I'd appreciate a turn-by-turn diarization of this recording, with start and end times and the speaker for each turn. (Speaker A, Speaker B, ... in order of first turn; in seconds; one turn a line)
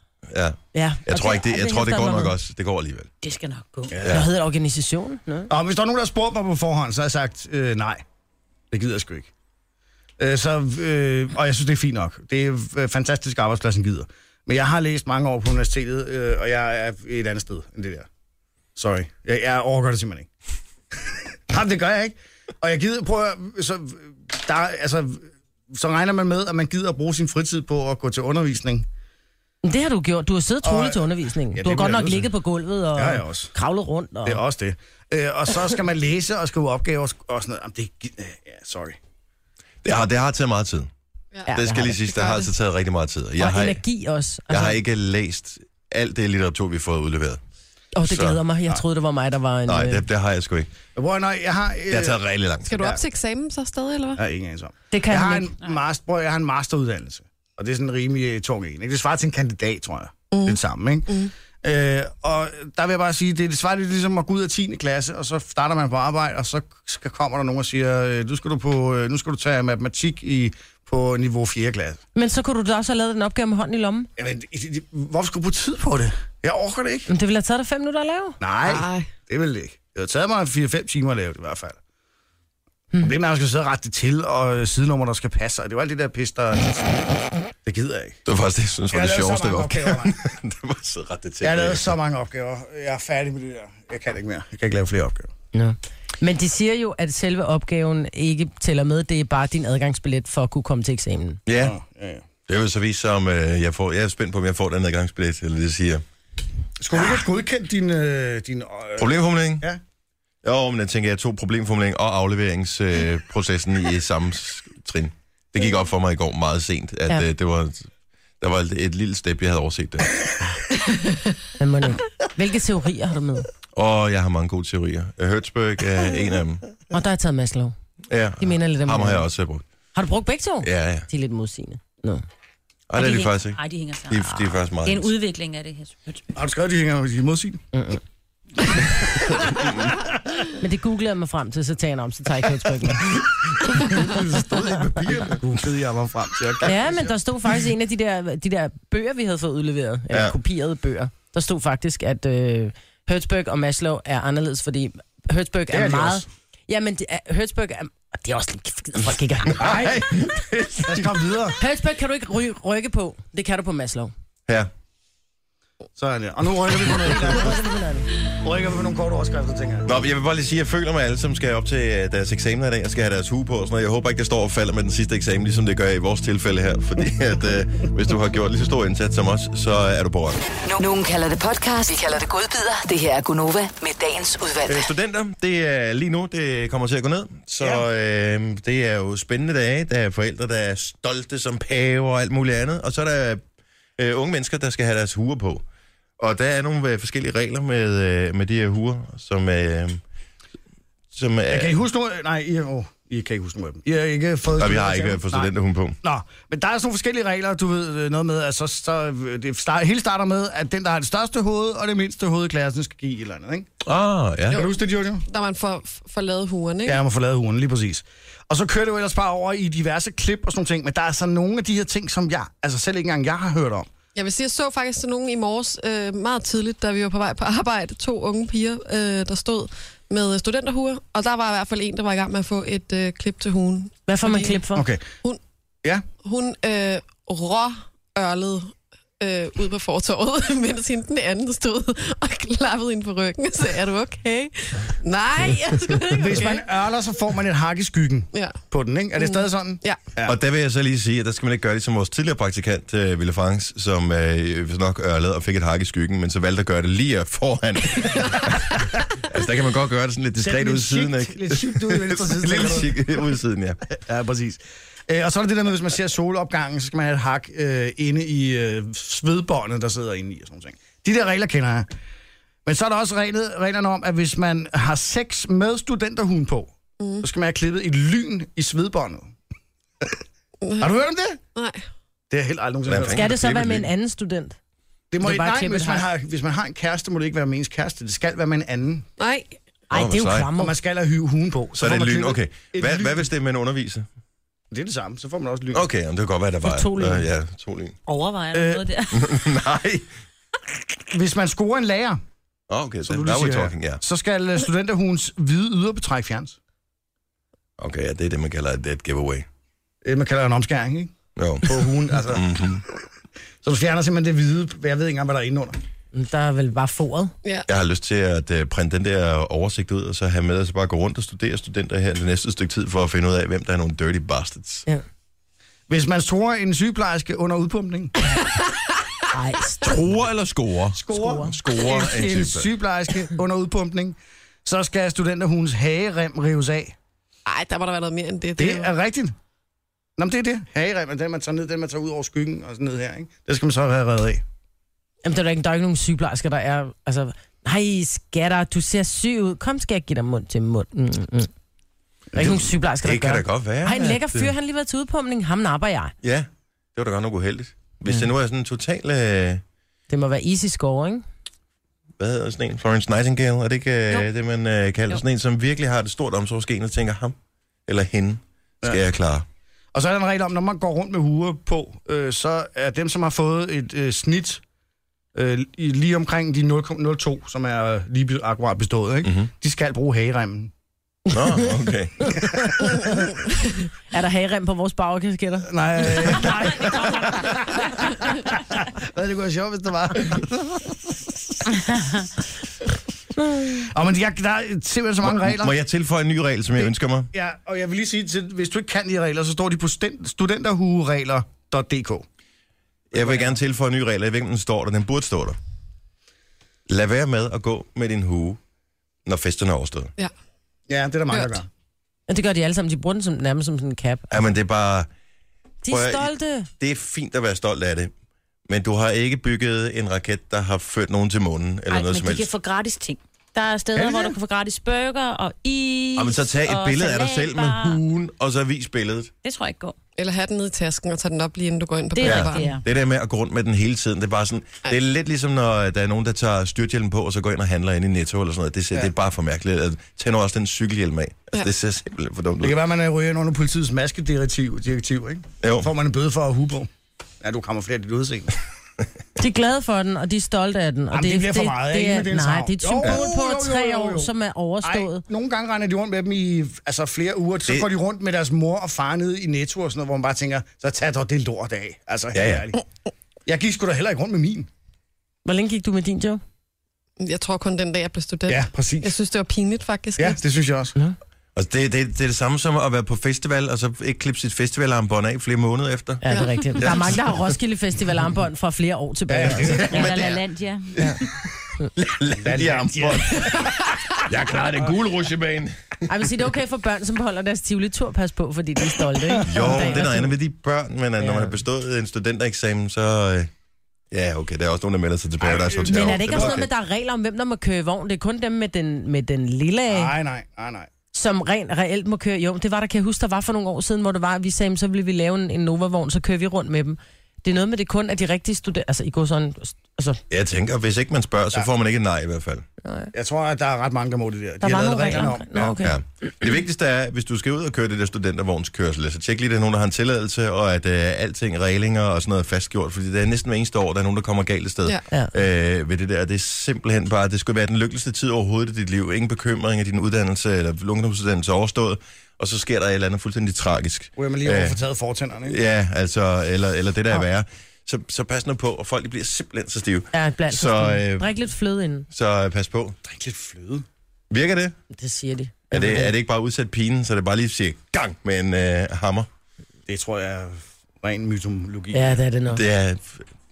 Speaker A: 0.3-3.1
Speaker B: 0.7-2.3
Speaker C: 3.2-3.9
Speaker D: 3.9-4.3
Speaker A: 4.0-4.3
Speaker B: 4.0-5.5
Speaker D: 5.5-8.0
Speaker D: 8.7-9.3
Speaker D: 10.2-18.1
Speaker D: 18.8-20.3
Speaker D: 20.9-28.9
Speaker B: 29.6-34.4
Speaker D: 30.6-32.3
Speaker D: 32.9-33.5
Speaker D: 34.2-39.0
Speaker A: 39.8-40.9
Speaker B: 41.5-42.0
Speaker A: 41.5-43.8
Speaker E: 42.1-42.5
Speaker B: 43.4-44.8
Speaker A: 44.5-47.4
Speaker B: 48.0-50.0
Speaker A: 48.0-48.4
Speaker A: 49.7-50.7
Speaker D: 50.9-53.0
Speaker A: 51.9-52.8
Speaker E: 52.7-54.2
Speaker D: 54.1-61.1
Speaker B: 54.9-55.5
Speaker E: 60.3-61.3
Speaker D: 61.6-72.0
Speaker B: 72.1-74.1
Speaker D: 74.2-77.1
Speaker B: 77.1-78.4
Speaker D: 78.4-81.8
Speaker E: 78.6-79.1
Speaker D: 83.0-87.1
Speaker D: 87.6-88.2
Speaker A: 88.2-91.9
Speaker D: 88.9-90.2
Speaker D: 91.4-95.3
Speaker B: 95.5-101.4
Speaker A: 101.5-101.7
Speaker D: 101.6-102.2
Speaker A: 102.5-106.0
Speaker D: 106.8-109.8
Speaker A: 109.0-109.7
Speaker A: 110.4-117.9
Speaker A: 118.4-120.3
Speaker B: 121.6-123.5
Speaker A: 123.7-126.7
Speaker B: 126.9-127.7
Speaker A: 128.1-129.7
Speaker B: 128.4-129.3
Speaker B: 129.9-132.2
Speaker A: 130.6-131.1
Speaker A: 132.9-135.1
Speaker C: 132.9-136.2
Speaker D: 136.3-137.6
Speaker B: 137.7-138.0
Speaker D: 139.4-140.1
Speaker A: 139.6-139.9
Speaker B: 140.6-143.1
Speaker A: 143.7-145.4
Speaker D: 143.8-147.1
Speaker B: 146.6-159.7
Speaker D: 155.7-156.3
Speaker A: 159.5-161.1
Speaker D: 159.6-160.1
Speaker D: 160.8-161.6
Speaker B: 161.6-164.1
Speaker D: 165.9-167.7
Speaker B: 166.9-168.1
Speaker D: 168.3-169.9
Speaker A: 169.8-180.4
Speaker F: 180.6-184.9
Speaker A: 184.7-193.4
Speaker A: 194.0-195.6
Speaker A: 196.2-200.0
Speaker A: 201.1-201.8
Speaker D: 201.5-213.7
Speaker A: 204.6-206.0
Speaker A: 213.8-214.6
Speaker D: 214.5-215.2
Speaker E: 214.5-217.0
Speaker D: 216.8-223.9
Speaker E: 224.1-234.6
Speaker B: 234.1-234.8
Speaker D: 234.7-235.1
Speaker E: 236.2-246.6
Speaker D: 246.1-250.4
Speaker E: 248.3-248.6
Speaker E: 249.2-250.1
Speaker A: 250.2-258.7
Speaker A: 259.2-263.9
Speaker D: 260.4-263.2
Speaker D: 263.9-271.9
Speaker D: 272.6-279.3
Speaker E: 277.0-277.2
Speaker E: 280.6-280.9
Speaker D: 280.8-281.4
Speaker E: 281.5-281.8
Speaker D: 282.3-283.3
Speaker A: 282.9-283.9
Speaker B: 283.1-284.6
Speaker D: 285.1-289.1
Speaker B: 285.2-286.1
Speaker E: 289.2-289.5
Speaker B: 289.9-290.7
Speaker A: 289.9-290.5
Speaker D: 290.6-293.3
Speaker A: 291.8-294.1
Speaker D: 294.7-295.9
Speaker A: 295.7-297.9
Speaker B: 296.6-297.3
Speaker C: 298.1-299.3
Speaker D: 298.5-298.9
Speaker A: 299.1-300.1
Speaker D: 301.1-302.2
Speaker A: 302.7-304.0
Speaker D: 303.0-306.6
Speaker A: 307.8-309.4
Speaker D: 310.0-312.5
Speaker A: 311.4-312.8
Speaker D: 313.6-315.8
Speaker B: 316.1-317.3
Speaker A: 317.7-324.9
Speaker D: 325.9-328.1
Speaker B: 329.3-330.0
Speaker A: 329.8-332.7
Speaker D: 330.9-336.9
Speaker B: 331.1-331.5
Speaker E: 337.4-338.9
Speaker D: 338.6-339.3
Speaker D: 340.2-344.4
Speaker B: 345.2-351.5
Speaker D: 352.3-352.6
Speaker B: 352.4-356.1
Speaker A: 352.4-354.5
Speaker A: 356.2-359.6
Speaker B: 360.1-361.2
Speaker A: 362.2-367.4
Speaker A: 367.9-369.4
Speaker D: 369.9-374.6
Speaker D: 375.3-380.7
Speaker A: 379.2-379.5
Speaker A: 381.3-382.4
Speaker B: 382.2-383.1
Speaker B: 384.1-386.5
Speaker D: 385.7-392.0
Speaker D: 393.6-395.8
Speaker A: 395.2-397.3
Speaker D: 396.8-402.2
Speaker A: 403.1-405.6
Speaker D: 403.1-403.6
Speaker A: 406.9-408.6
Speaker A: 409.2-410.1
Speaker D: 410.9-411.7
Speaker E: 411.3-411.6
Speaker B: 412.3-414.5
Speaker A: 414.3-415.1
Speaker B: 415.8-416.7
Speaker A: 415.9-418.1
Speaker A: 418.7-422.5
Speaker C: 421.9-428.0
Speaker D: 423.9-424.3
Speaker A: 426.1-429.3
Speaker C: 429.4-429.9
Speaker E: 430.2-432.8
Speaker C: 432.1-432.8
Speaker A: 432.2-442.8
Speaker D: 442.6-446.9
Speaker A: 445.6-445.9
Speaker D: 447.4-448.5
Speaker B: 449.4-455.2
Speaker D: 451.1-462.8
Speaker A: 462.3-462.7
Speaker D: 463.4-464.7
Speaker B: 465.4-466.4
Speaker E: 467.2-470.4
Speaker D: 468.5-469.1
Speaker D: 470.2-470.9
Speaker A: 471.5-476.2
Speaker B: 476.2-479.9
Speaker E: 476.3-476.6
Speaker A: 476.8-477.2
Speaker D: 479.3-480.3
Speaker A: 479.6-480.4
Speaker C: 479.9-480.9
Speaker A: 480.9-486.1
Speaker D: 482.4-483.6
Speaker B: 486.1-490.3
Speaker D: 489.2-490.1
Speaker A: 489.4-493.5
Speaker B: 491.2-491.6
Speaker A: 494.1-496.7
Speaker D: 495.4-496.6
Speaker B: 495.9-500.1
Speaker D: 499.9-500.9
Speaker B: 501.1-510.2
Speaker A: 510.3-512.6
Speaker B: 512.8-513.1
Speaker D: 513.1-515.8
Speaker B: 514.6-516.0
Speaker A: 515.8-534.8
Speaker D: 534.1-535.6
Speaker A: 535.5-541.3
Speaker B: 540.1-542.1
Speaker A: 542.1-543.0
Speaker D: 543.0-543.9
Speaker A: 544.3-544.7
Speaker B: 544.9-546.1
Speaker A: 545.7-549.3
Speaker D: 549.9-552.2
Speaker B: 551.9-552.6
Speaker A: 552.5-553.2